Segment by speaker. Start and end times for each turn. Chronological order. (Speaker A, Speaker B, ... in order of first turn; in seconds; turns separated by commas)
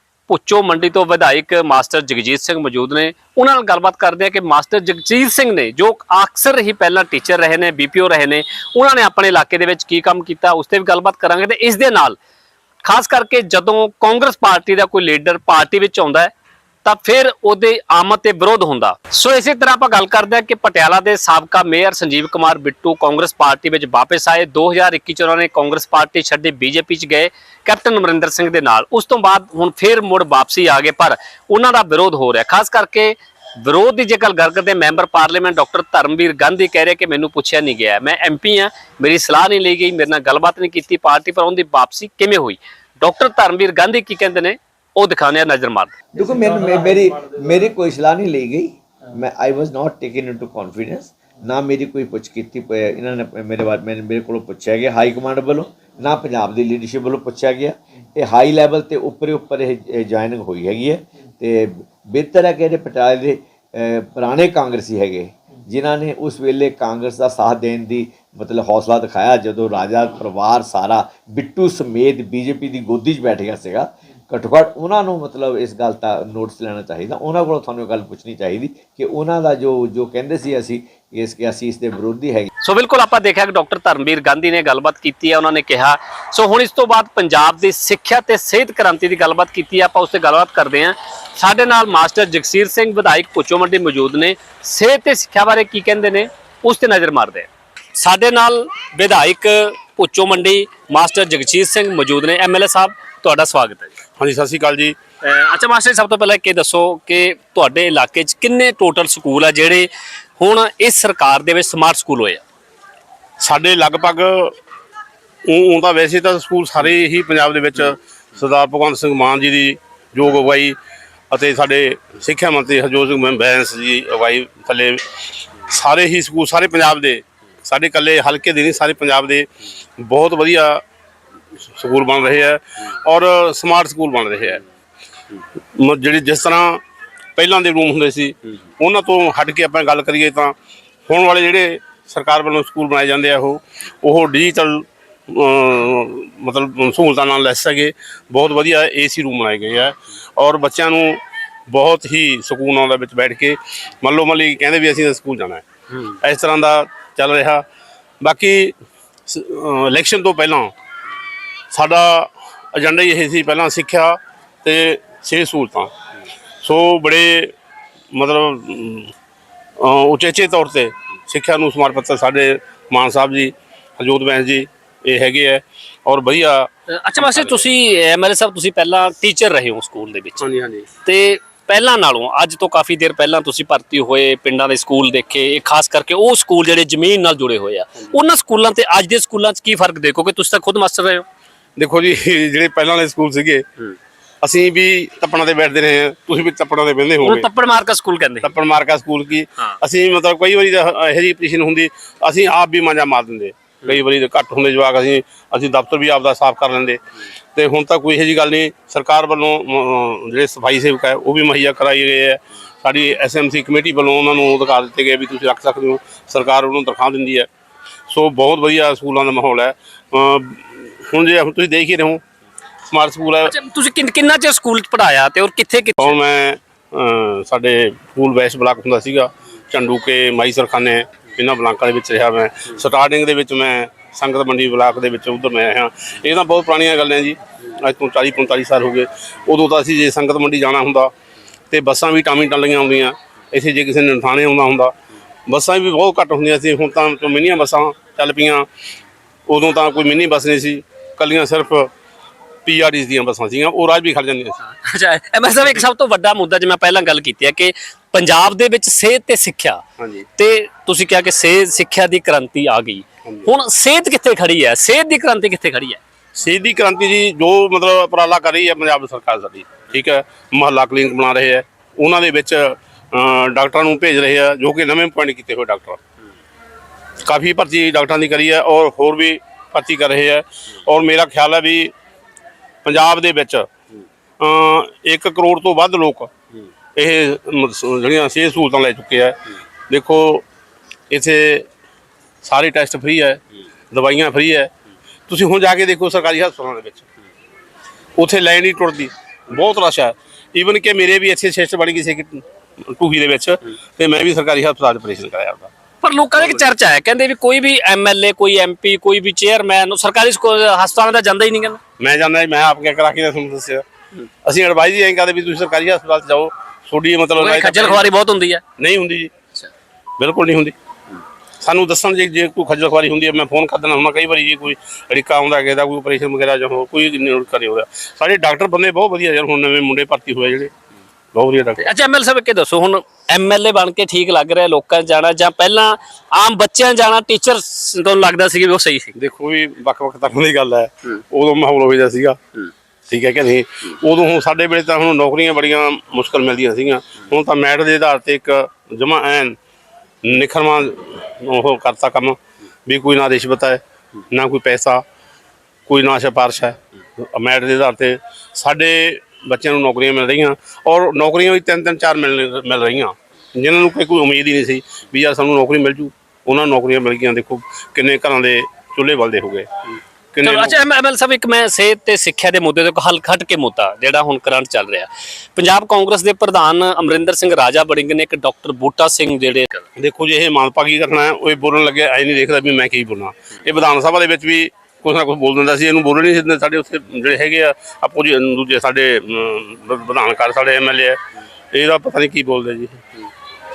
Speaker A: 0.3-12.2, Speaker A: 12.8-16.3, Speaker A: 16.9-45.9, Speaker B: 46.1-82.5, Speaker A: 82.6-103.9, Speaker C: 104.2-105.0, Speaker A: 105.2-112.4, Speaker C: 113.4-114.5, Speaker C: 115.5-120.8, Speaker C: 121.3-125.0, Speaker C: 125.6-129.5, Speaker C: 130.0-130.8, Speaker C: 131.8-134.6, Speaker C: 135.8-136.8, Speaker C: 137.4-140.5, Speaker C: 141.1-157.6, Speaker C: 158.2-158.7, Speaker C: 159.3-160.7, Speaker C: 161.7-165.9, Speaker C: 166.6-167.5, Speaker C: 168.1-169.1, Speaker C: 169.8-177.7, Speaker A: 176.9-180.5, Speaker C: 180.4-180.9, Speaker A: 181.0-191.2, Speaker C: 191.8-193.7, Speaker C: 194.4-197.5, Speaker A: 197.2-198.6, Speaker C: 198.4-207.0, Speaker C: 207.6-217.5, Speaker C: 218.1-222.2, Speaker C: 222.9-223.5, Speaker A: 223.4-226.2, Speaker C: 226.0-241.1, Speaker C: 241.7-244.9, Speaker C: 245.5-248.7, Speaker C: 249.5-251.9, Speaker C: 252.7-254.6, Speaker A: 254.6-259.8, Speaker C: 260.0-260.3, Speaker A: 260.4-266.0, Speaker C: 266.4-276.0, Speaker C: 277.2-281.9, Speaker C: 282.9-283.7, Speaker C: 284.4-286.3, Speaker C: 287.0-290.4, Speaker C: 291.1-291.7, Speaker C: 292.4-293.4, Speaker C: 293.9-294.7, Speaker C: 295.3-297.1, Speaker C: 298.2-305.7, Speaker A: 306.0-311.8, Speaker C: 312.0-313.8, Speaker C: 314.4-318.1, Speaker A: 317.4-318.6, Speaker C: 318.8-319.3, Speaker C: 320.2-320.8, Speaker C: 321.6-330.7, Speaker C: 331.3-331.8, Speaker A: 331.8-339.1, Speaker C: 339.2-342.4, Speaker C: 343.1-349.6, Speaker C: 350.2-355.0, Speaker C: 355.9-369.7, Speaker C: 370.4-370.8, Speaker A: 370.4-379.9, Speaker C: 380.0-391.2, Speaker C: 391.7-393.0